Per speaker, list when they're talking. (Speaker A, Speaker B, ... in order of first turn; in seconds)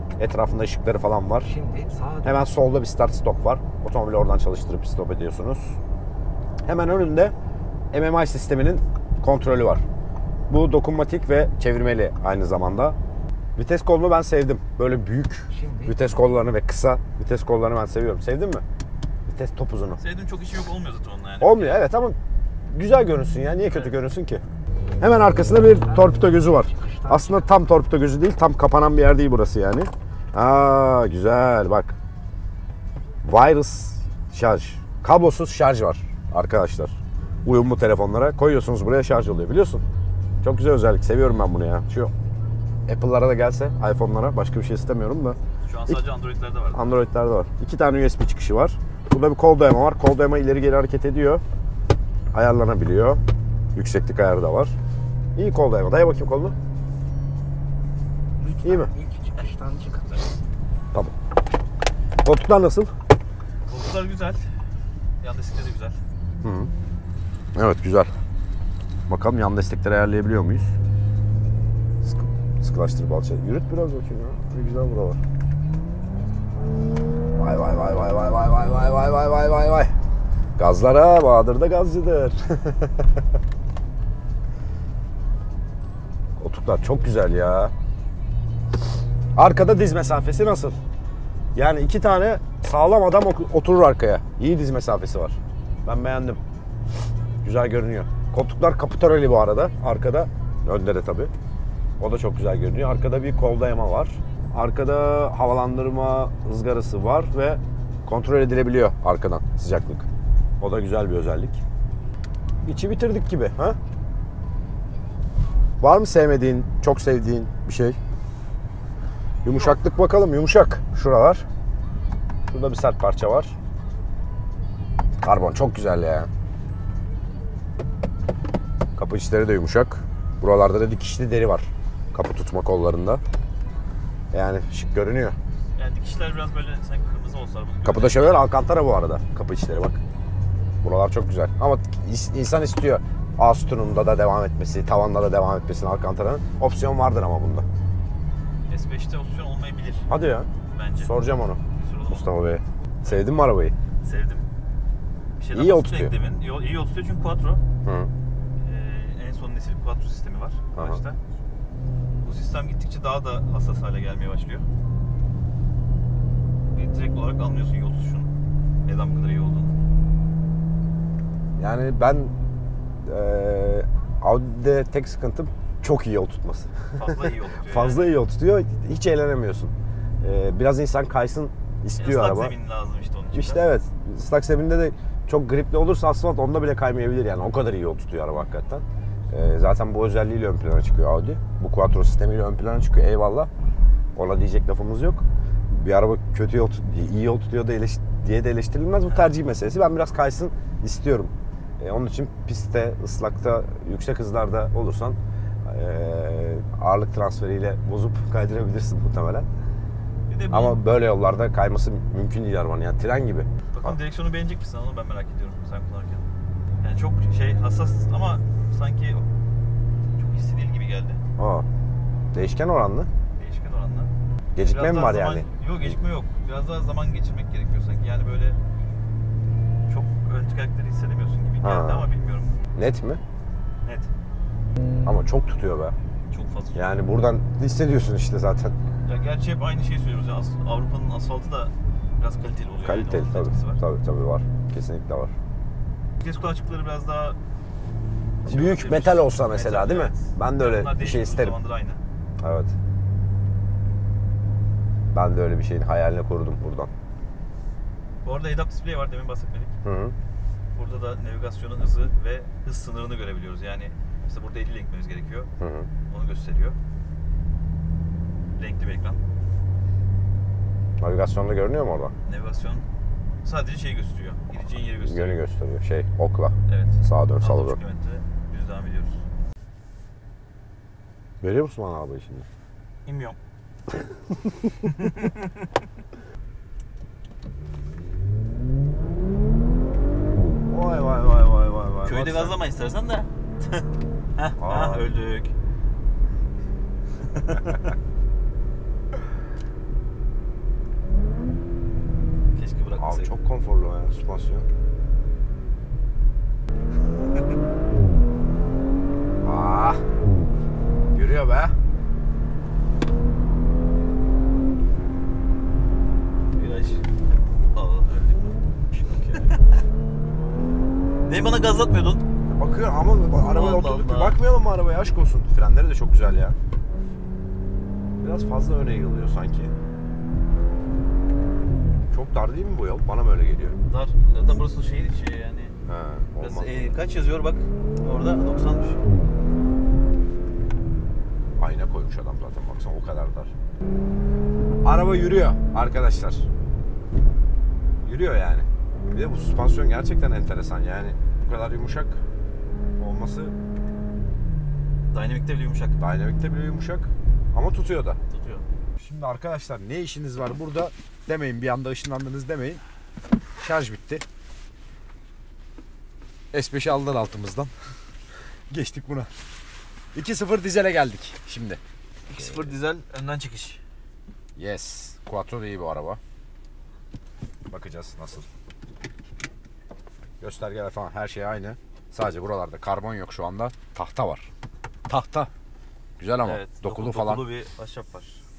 Speaker A: 0.2-1.5, 2.2-5.8, 6.7-7.3, 7.9-9.8, 10.5-13.0, 13.6-18.6, 19.3-20.0, 21.4-22.2, 22.7-24.4, 25.0-32.0, 33.2-39.8, 40.4-42.1, 42.9-46.0, 46.7-51.4, 52.3-53.2, 53.8-54.8, 55.4-56.6, 58.6-58.9, 62.2-62.9, 66.4-66.7, 67.5-68.1, 69.1-70.7, 72.0-75.2, 77.3-79.9, 80.6-83.2, 86.4-87.7, 89.4-90.8, 91.5-96.4, 97.4-101.3, 102.0-110.1, 110.6-111.6, 112.6-113.8, 115.8-118.0, 119.4-121.5, 122.5-123.5, 125.2-126.3, 129.0-133.2, 134.3-135.4, 137.8-140.0, 140.8-147.7, 150.1-153.8, 155.5-156.2, 157.8-158.1, 160.7-161.0, 171.6-172.3, 173.1-182.6, 183.3-193.5, 194.2-209.5, 210.5-214.0, 221.4-221.7, 222.3-223.1, 224.6-225.9, 231.6-232.1, 232.8-233.2, 235.1-236.0, 236.7-238.7, 242.8-245.3, 248.5-251.6, 252.4-252.7, 255.1-256.9, 259.8-260.1, 265.6-265.9, 271.0-272.1, 275.0-277.8, 281.4-282.5, 284.4-284.7, 290.7-292.6, 294.6-295.1, 303.0-304.7, 309.4-310.0, 311.1-311.7, 318.9-319.6, 322.5-326.6, 328.2-329.7, 332.1-333.8, 335.9-336.9, 341.6-343.5, 344.8-346.5, 348.1-352.2, 353.0-353.5, 356.0-358.2, 359.0-362.8, 363.6-364.2, 366.5-367.7, 368.7-369.3, 370.1-371.8, 372.3-372.8, 374.6-376.2, 377.7-378.5, 380.4-384.5, 385.1-385.5, 386.2-387.5
Speaker B: 1.4-2.5, 15.5-16.4, 25.8-27.6, 58.4-60.3
Speaker C: 20.0-21.9, 23.7-24.0, 45.6-46.9, 63.7-64.5, 65.2-66.0, 119.5-119.8, 135.8-138.5, 148.7-150.1, 150.7-152.4, 154.0-154.5, 155.4-157.6, 158.6-161.2, 162.2-164.7, 166.7-168.3, 168.8-169.7, 177.0-178.1, 182.0-183.7, 210.3-210.8, 213.7-216.3, 216.8-219.3, 220.2-221.2, 223.4-228.6, 229.9-232.6, 233.8-234.1, 236.3-237.0, 239.1-243.8, 246.2-247.4, 248.5-252.0, 258.2-259.7, 260.8-265.5, 266.1-266.8, 268.6-269.2, 272.3-272.9, 273.4-275.4, 276.7-279.2, 283.1-283.4, 284.8-285.6, 292.0-295.5, 297.3-297.8, 302.5-303.3, 316.6-317.0, 317.7-318.6, 319.3-319.6, 321.3-322.2, 323.4-324.4, 333.9-335.8, 336.4-339.0, 355.1-356.0, 358.3-358.6, 372.3-373.8, 386.4-388.4